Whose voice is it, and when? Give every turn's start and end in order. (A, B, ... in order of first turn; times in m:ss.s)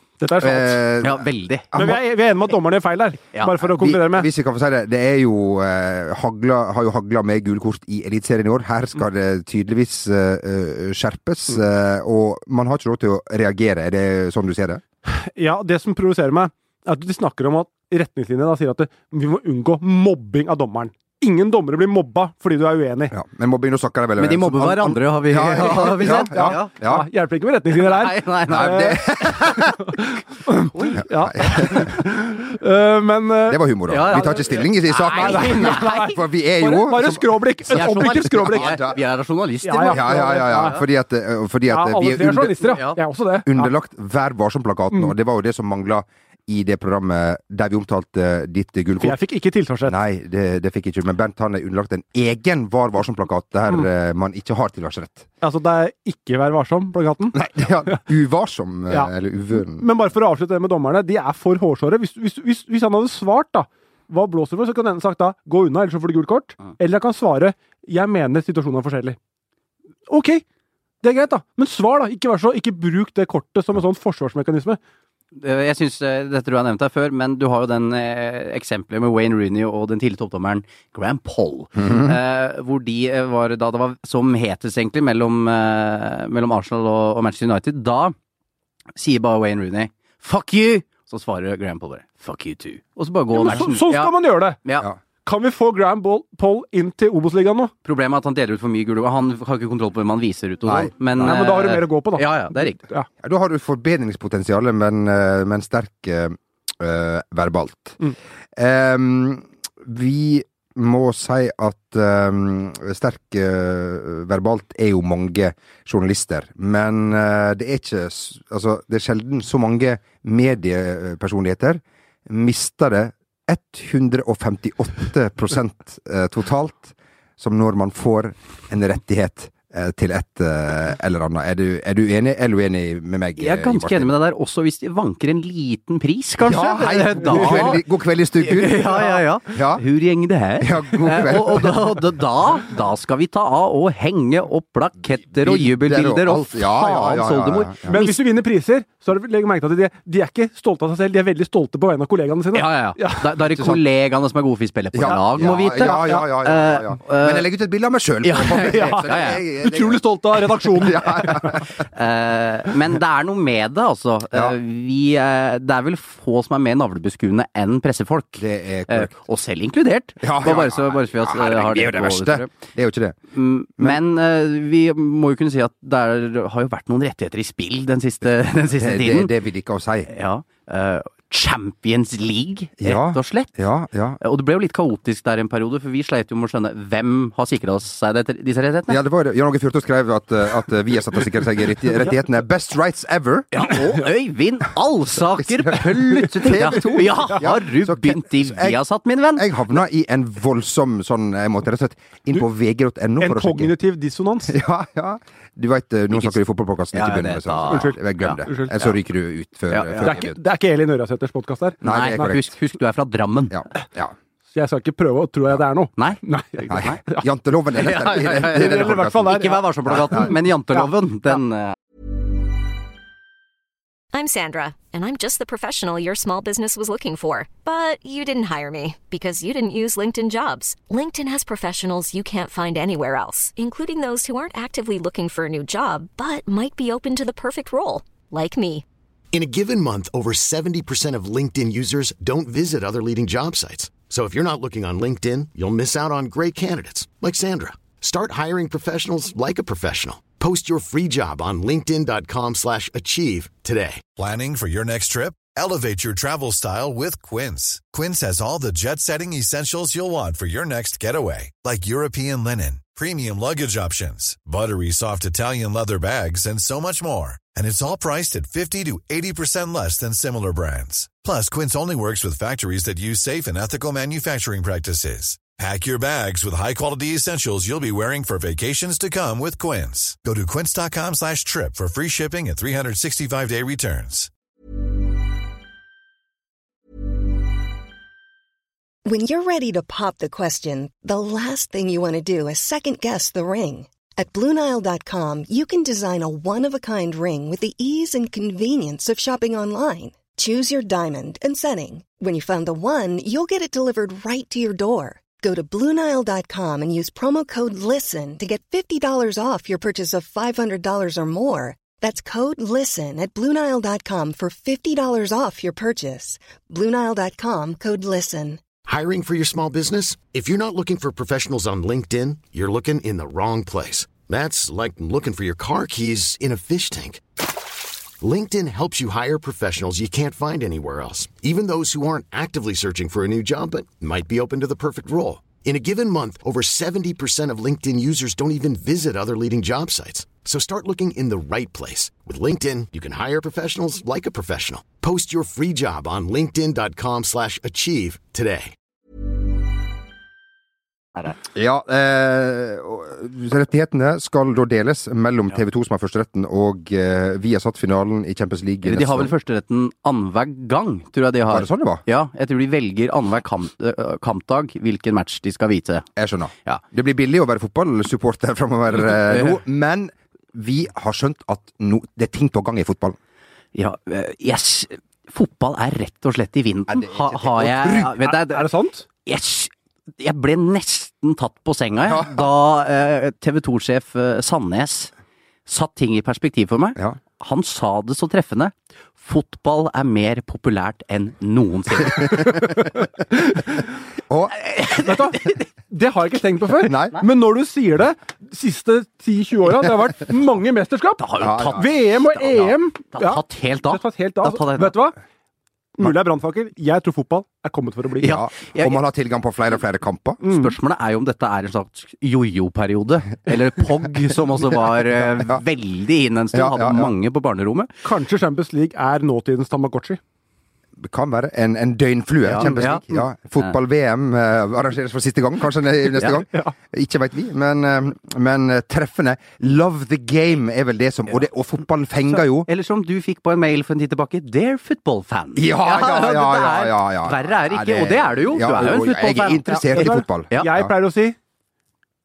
0:00.2-0:01.0 A
0:00.4-0:02.0 B
0:01.0-0:01.8 C
0:01.7-0:04.3 A
0:03.6-0:14.8 B
0:15.0-0:23.1 A
0:23.1-0:27.0 B
0:24.2-0:26.7 C
0:25.8-0:34.4 A
0:27.7-0:29.7 C
0:28.5-0:29.8 B
0:30.7-0:31.8 C
0:31.4-0:31.9 B
0:33.5-0:39.0 B
0:33.9-0:36.1 C
0:35.0-0:38.9 A
0:37.7-0:40.8 C
0:39.6-0:40.8 A
0:39.8-0:42.6 B
0:41.7-0:43.7 A
0:42.6-0:43.0 C
0:43.4-0:49.2 B
0:49.0-0:50.0 A
0:49.8-0:55.3 B
0:55.4-0:57.4 A
0:57.3-0:59.9 B
0:58.9-1:09.2 A
1:10.1-1:10.4 A
1:11.0-1:14.8 A
1:15.3-1:28.1 C
1:21.8-1:22.1 B
1:29.0-1:34.9 C
1:33.3-1:34.6 A
1:35.2-1:37.7 A
1:37.8-1:42.8 C
1:40.6-1:40.9 B
1:41.1-1:43.1 A
1:43.2-1:48.0 B
1:48.6-2:14.1 B
2:13.4-2:17.8 C
2:16.4-2:19.8 B
2:17.3-2:17.7 A
2:18.4-2:28.2 C
2:20.6-2:21.9 B
2:25.3-2:28.0 B
2:27.9-2:33.3 A
2:32.5-2:37.5 C
2:33.5-2:33.8 B
2:34.9-2:41.7 B
2:35.0-2:36.2 A
2:38.2-2:39.4 C
2:38.6-2:41.5 A
2:41.8-2:52.5 C
2:48.4-2:49.1 B
2:50.2-2:53.2 B
2:53.3-2:59.3 C
2:58.7-3:00.1 B
3:00.1-3:03.5 C
3:02.8-3:04.2 B
3:04.2-3:09.0 C
3:08.9-3:13.5 B
3:13.5-3:19.5 C
3:15.4-3:18.8 B
3:19.3-3:23.7 B
3:23.2-3:24.5 A
3:24.5-3:30.4 B
3:26.1-3:26.4 C
3:26.9-3:28.4 C
3:27.7-3:28.8 A
3:29.7-3:30.2 C
3:30.0-3:32.3 A
3:31.8-3:32.5 B
3:31.8-3:33.6 C
3:33.5-3:34.1 B
3:34.5-3:37.3 A
3:36.7-3:40.3 B
3:36.7-3:37.0 C
3:37.8-3:41.7 C
3:38.0-3:40.9 A
3:44.1-3:58.8 D
3:59.3-4:14.0 E
4:14.2-4:44.3 F
4:49.0-5:18.6 G
5:18.8-5:27.2 E
5:28.2-5:48.7 E
5:51.5-5:59.3 B
5:58.8-6:06.1 C
6:01.5-6:02.0 B
6:06.2-6:13.2 B
6:09.3-6:09.6 C
6:13.7-6:18.6 C
6:16.9-6:18.1 B
6:18.2-6:19.0 A
6:19.2-6:25.1 C
6:22.1-6:22.5 B
6:25.6-6:32.6 C
6:32.0-6:32.6 B
6:34.3-6:34.6 B
6:34.5-6:35.6 C
6:35.0-6:45.1 A
6:36.8-6:37.2 B
6:41.2-6:45.0 C
6:41.4-6:41.8 B
6:46.0-6:48.4 A
6:48.2-6:49.0 C
6:48.2-6:50.4 B
6:50.4-6:50.8 A
6:50.4-6:57.9 C
6:55.2-6:55.6 B
6:56.5-6:57.1 B
6:58.0-7:00.2 A
7:01.0-7:12.7 B
7:02.4-7:03.0 C
7:12.3-7:20.7 C
7:15.6-7:20.9 B
7:18.8-7:21.4 A